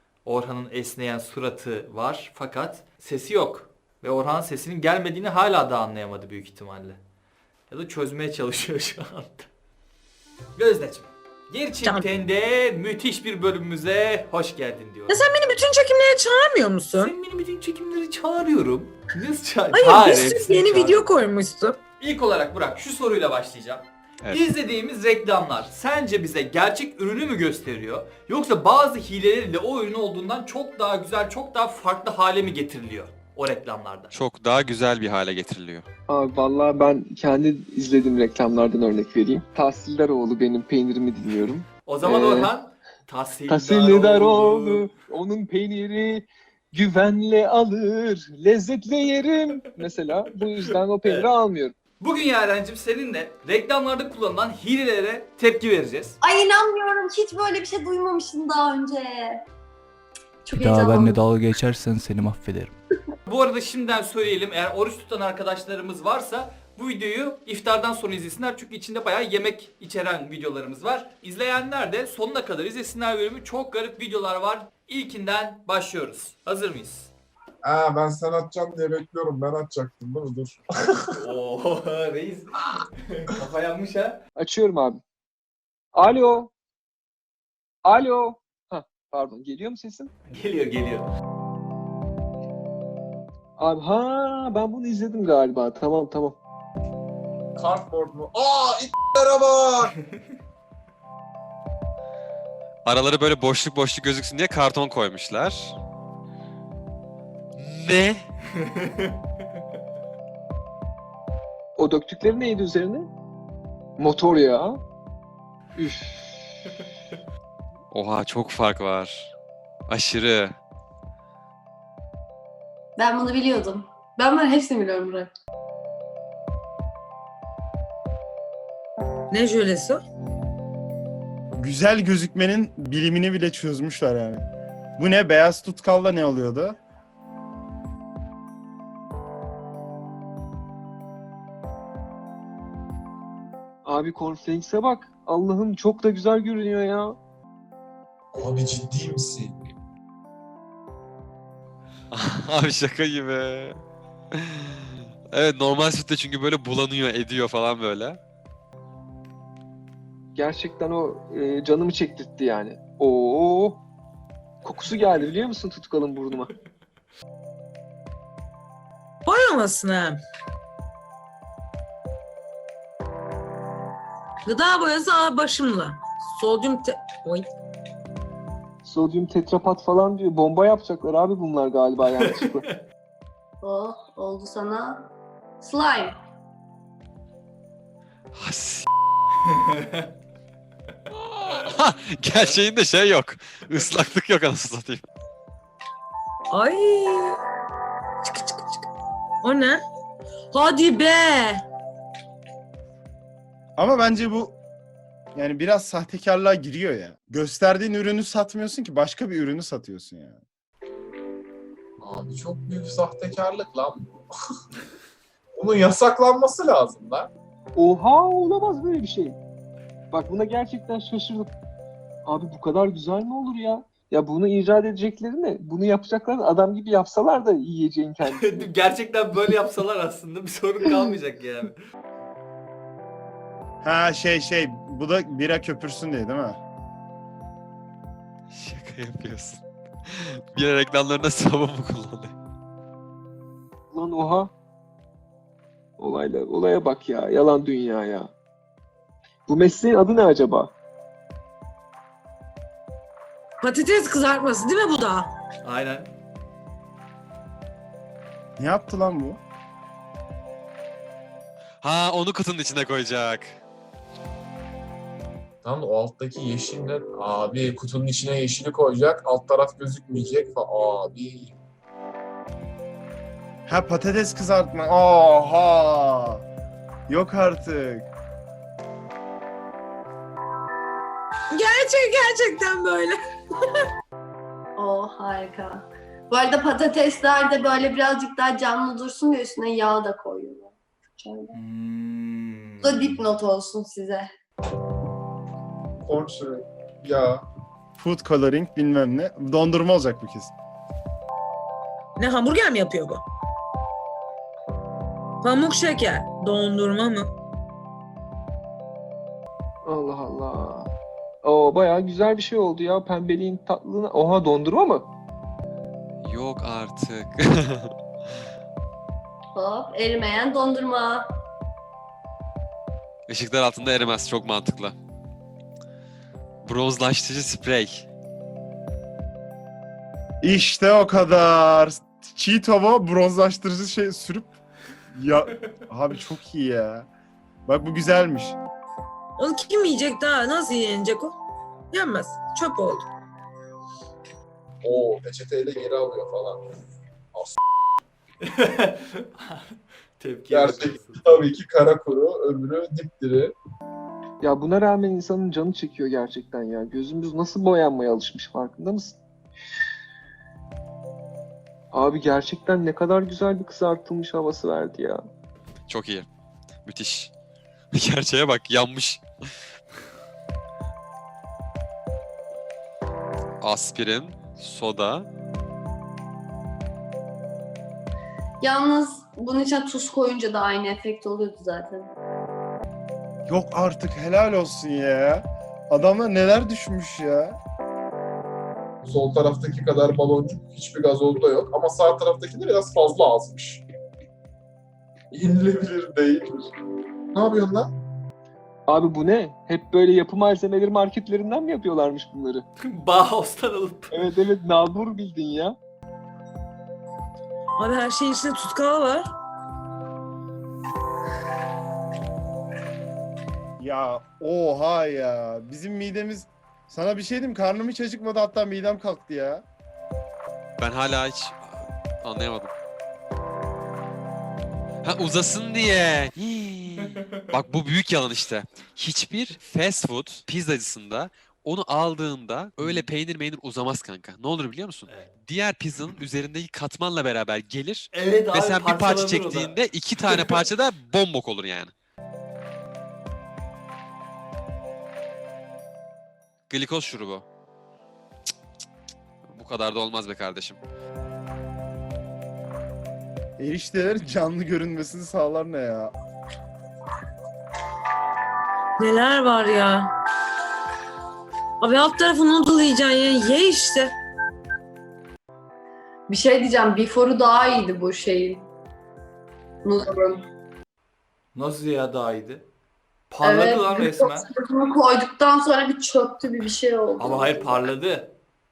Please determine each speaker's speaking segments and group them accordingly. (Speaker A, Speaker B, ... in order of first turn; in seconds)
Speaker A: 0.2-7.0, 7.7-9.5, 10.6-15.2, 16.9-21.1, 22.0-34.1, 41.9-44.8, 52.0-56.2, 63.2-77.1, 81.1-84.2, 90.3-91.0, 228.3-231.8, 255.6-256.1, 291.5-293.1, 348.4-351.5, 402.8-404.2, 438.1-440.6, 471.5-472.7, 473.3-474.5, 477.2-478.3
Speaker B: 15.1-17.1, 19.7-21.8, 129.3-130.0, 169.2-170.2, 174.4-177.5, 196.5-197.3, 198.2-198.8, 199.4-199.8, 200.5-201.6, 253.6-255.3, 281.5-283.2, 302.2-303.2, 305.4-307.3, 339.4-341.4, 341.9-343.1, 407.8-409.2, 459.0-460.1, 461.8-464.1
Speaker C: 34.1-35.9, 102.8-105.8, 107.6-108.2, 117.9-119.3, 119.9-120.6, 152.1-153.8, 154.3-154.8, 155.3-158.2, 188.3-188.8, 191.1-195.0, 238.5-242.3, 261.8-263.6, 316.2-317.9, 323.3-324.9, 326.6-328.1, 365.9-366.2, 366.8-367.3, 367.9-369.2, 373.6-375.3, 420.8-422.7, 425.0-441.9, 446.7-447.4, 449.4-450.8
Speaker D: 36.1-42.5, 43.5-51.7, 84.4-85.0, 85.9-86.5, 87.8-90.1, 93.6-96.3, 111.8-113.1, 114.0-114.8, 115.8-116.6, 143.8-147.2, 160.3-163.8, 164.6-166.5, 178.8-182.7, 217.8-219.4, 220.1-221.5, 222.2-228.7, 243.9-244.5, 246.0-248.3, 249.5-250.7, 309.8-310.9, 311.4-315.1, 354.4-359.2, 361.9-365.2, 398.9-402.6, 404.1-405.8
Speaker E: 56.2-59.4, 60.5-61.3, 123.0-125.3, 183.6-185.1, 185.6-186.1, 284.8-291.6, 292.8-294.3, 319.5-321.2, 378.6-382.1, 466.3-468.7, 469.8-470.4, 473.4-477.9
Speaker F: 60.5-62.7
Speaker G: 77.6-81.1, 97.5-99.9, 148.3-149.6, 212.0-214.2, 215.6-217.3, 265.6-271.6, 296.1-297.4, 344.8-346.6, 350.5-353.5, 389.0-393.8, 395.3-396.6, 397.3-397.9
Speaker H: 131.6-136.8, 203.8-204.6, 205.3-210.4, 233.8-236.6, 258.6-259.4, 273.7-276.4, 277.1-278.1, 298.0-300.5, 330.4-334.5, 335.1-337.1, 337.6-338.6, 383.5-387.6, 413.8-419.6, 453.6-456.1